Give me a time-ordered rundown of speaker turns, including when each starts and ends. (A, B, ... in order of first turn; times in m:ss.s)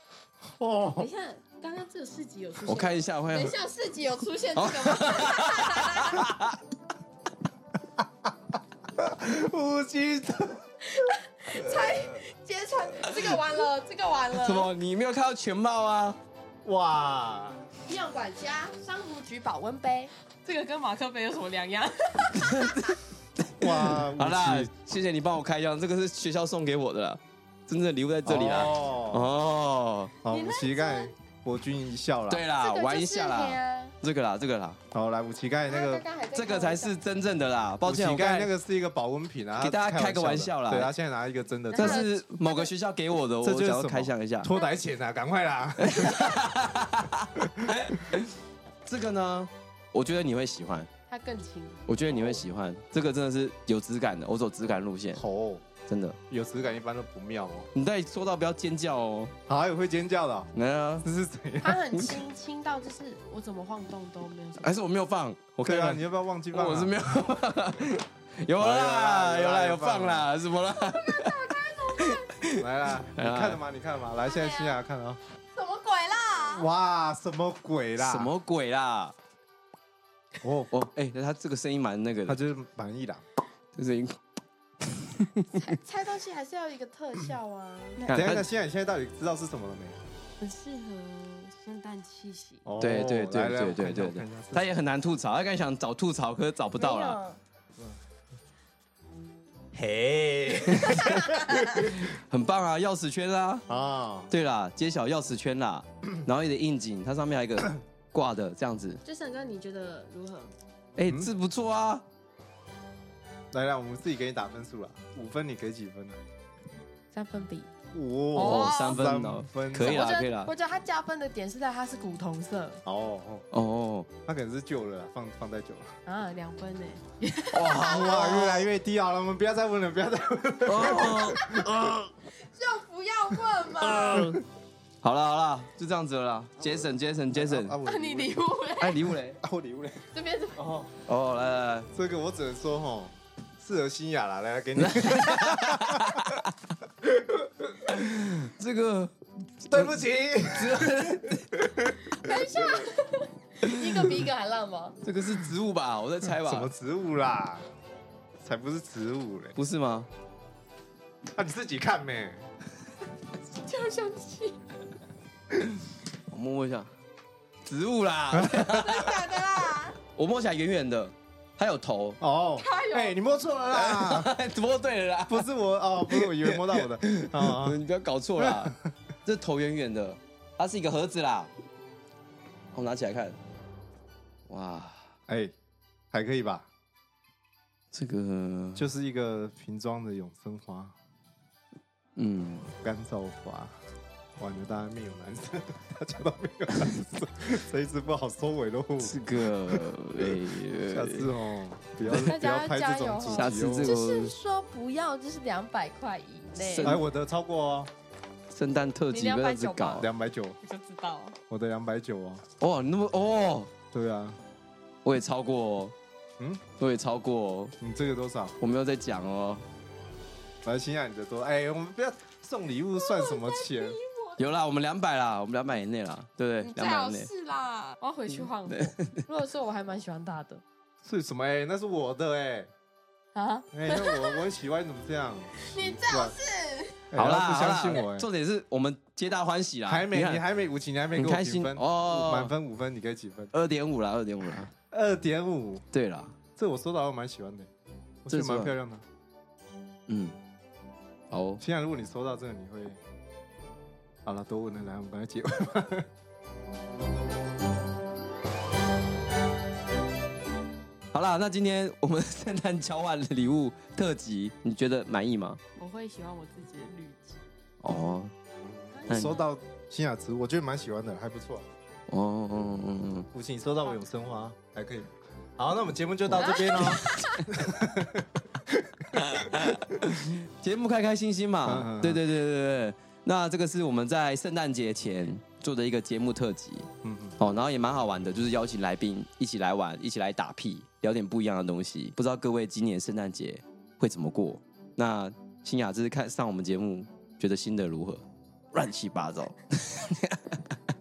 0:00.5-0:01.1 A
0:01.0-0:06.3 B
0:02.6-0:03.6 C
0:04.6-0:06.6 C
0:08.9-0:10.6 A
0:10.8-0:14.7 B
0:14.3-0:16.2 C
0:16.6-0:17.6 A
0:17.9-0:23.0 B
0:22.4-0:30.1 C
0:23.6-0:24.7 A
0:28.2-0:29.3 A
0:30.2-0:32.5 A
0:30.2-0:31.1 B
0:32.3-0:34.8 C
0:32.6-0:34.0 B
0:34.9-0:36.0 A
0:35.7-0:36.9 B
0:36.3-0:38.5 C
0:37.8-0:42.1 A
0:39.6-0:40.9 C
0:41.7-0:42.7 B
0:41.8-0:44.5 C
0:43.4-0:46.4 A
0:45.8-0:48.3 C
0:47.4-0:47.9 A
0:48.9-0:50.9 C
0:51.1-0:51.8 B
0:51.9-0:55.2 C
0:52.1-0:52.4 A
0:55.2-0:55.7 A
0:55.9-0:56.2 C
0:56.3-0:57.7 A
0:57.7-0:59.3 C
0:59.5-1:02.0 A
1:00.5-1:01.0 C
1:01.6-1:04.8 B
1:04.6-1:13.6 C
1:05.6-1:07.3 A
1:08.6-1:10.3 A
1:10.7-1:12.3 B
1:12.5-1:15.2 A
1:14.2-1:14.8 B
1:15.5-1:16.7 B
1:16.5-1:18.3 A
1:18.0-1:19.1 C
1:20.4-1:20.7 A
1:20.7-1:22.4 C
1:22.2-1:23.2 A
1:23.8-1:24.2 C
1:24.8-1:25.7 C
1:25.6-1:28.1 B
1:28.0-1:28.4 C
1:28.1-1:30.0 A
1:30.4-1:32.6 B
1:32.6-1:34.7 A
1:32.8-1:37.2 C
1:36.8-1:37.4 B
1:39.7-1:41.4 A
1:40.6-1:43.6 C
1:40.9-1:41.9 B
1:43.7-1:44.3 A
1:44.3-1:49.0 C
1:49.0-1:50.5 B
1:51.0-1:52.0 C
1:53.5-1:56.2 A
1:57.1-1:57.7 B
1:57.9-2:00.1 A
1:58.4-1:59.0 B
1:58.4-2:00.5 C
1:59.8-2:02.8 B
2:02.8-2:03.5 A
2:03.5-2:04.1 C
2:04.2-2:06.0 A
2:06.0-2:08.6 B
2:07.5-2:08.7 C
2:07.8-2:11.9 A
2:10.6-2:12.1 C
2:12.4-2:14.3 B
2:13.8-2:14.4 C
2:14.1-2:14.4 A
2:15.0-2:17.8 C
2:16.7-2:20.0 A
2:17.8-2:19.1 B
2:18.8-2:19.4 C
2:20.1-2:20.8 B
2:20.6-2:21.0 A
2:21.0-2:21.9 C
2:21.9-2:26.4 A
2:24.8-2:26.5 C
2:27.0-2:28.0 A
2:27.9-2:29.9 C
2:29.7-2:32.1 A
2:30.5-2:31.7 C
2:32.1-2:35.0 B
2:35.0-2:36.7 C
2:36.2-2:37.6 A
2:38.4-2:39.6 A
2:39.6-2:40.1 C
2:41.3-2:42.5 A
2:43.6-2:44.6 B
2:46.3-2:46.9 C
2:47.6-2:49.2 C
2:48.3-2:48.9 A
2:48.8-2:50.0 B
2:50.1-2:52.2 C
2:52.2-2:54.3 A
2:52.6-2:53.2 B
2:53.7-2:55.5 C
2:55.3-2:57.8 A
2:56.1-3:01.5 C
2:58.4-2:58.9 A
3:02.7-3:03.4 C
3:04.5-3:05.1 C
3:05.3-3:05.5 A
3:06.1-3:06.7 A
3:07.9-3:08.9 C
3:08.8-3:10.9 A
3:12.2-3:12.7 C
3:12.8-3:13.7 A
3:14.4-3:23.9 A
3:19.0-3:21.3 C
3:22.0-3:27.0 B
3:22.1-3:22.3 C
3:23.3-3:24.3 C
3:26.6-3:27.0 C
3:26.8-3:27.9 A
3:28.5-3:30.1 C
3:29.1-3:30.1 B
3:30.0-3:30.6 A
3:30.6-3:31.4 B
3:31.5-3:32.4 A
3:32.6-3:33.7 C
3:33.9-3:34.4 A
3:35.0-3:35.9 C
3:36.4-3:36.6 A
3:36.8-3:37.7 C
3:37.8-3:38.6 A
3:38.6-3:39.6 C
3:40.6-3:44.0 A
3:43.0-3:44.4 B
3:44.4-3:47.3 C
3:46.6-3:50.6 B
3:48.4-3:49.2 C
3:51.0-3:52.7 A
3:53.4-3:54.4 B
3:53.7-3:56.4 A
3:55.6-3:57.0 B
3:57.1-3:58.3 A
3:57.1-4:00.4 C
3:59.9-4:03.5 A
4:01.2-4:02.5 C
4:03.5-4:04.7 C
4:04.9-4:05.9 A
4:05.9-4:06.4 C
4:06.5-4:07.7 A
4:08.2-4:09.0 A
4:08.3-4:08.7 C
4:10.1-4:10.4 C
4:11.3-4:11.6 C
4:11.6-4:13.0 A
4:14.2-4:16.1 A
4:21.1-4:25.6 C
4:25.8-4:27.4 B
4:27.8-4:28.3 C
4:28.6-4:31.7 A
4:28.9-4:29.4 B
4:29.1-4:29.4 C
4:32.1-4:33.3 C
4:33.3-4:40.1 A
4:36.3-4:37.5 B
4:36.3-4:37.2 C
4:39.1-4:46.9 C
4:41.6-4:42.2 A
4:47.0-4:47.4 A
4:47.4-4:58.2 C
4:58.7-5:00.6 C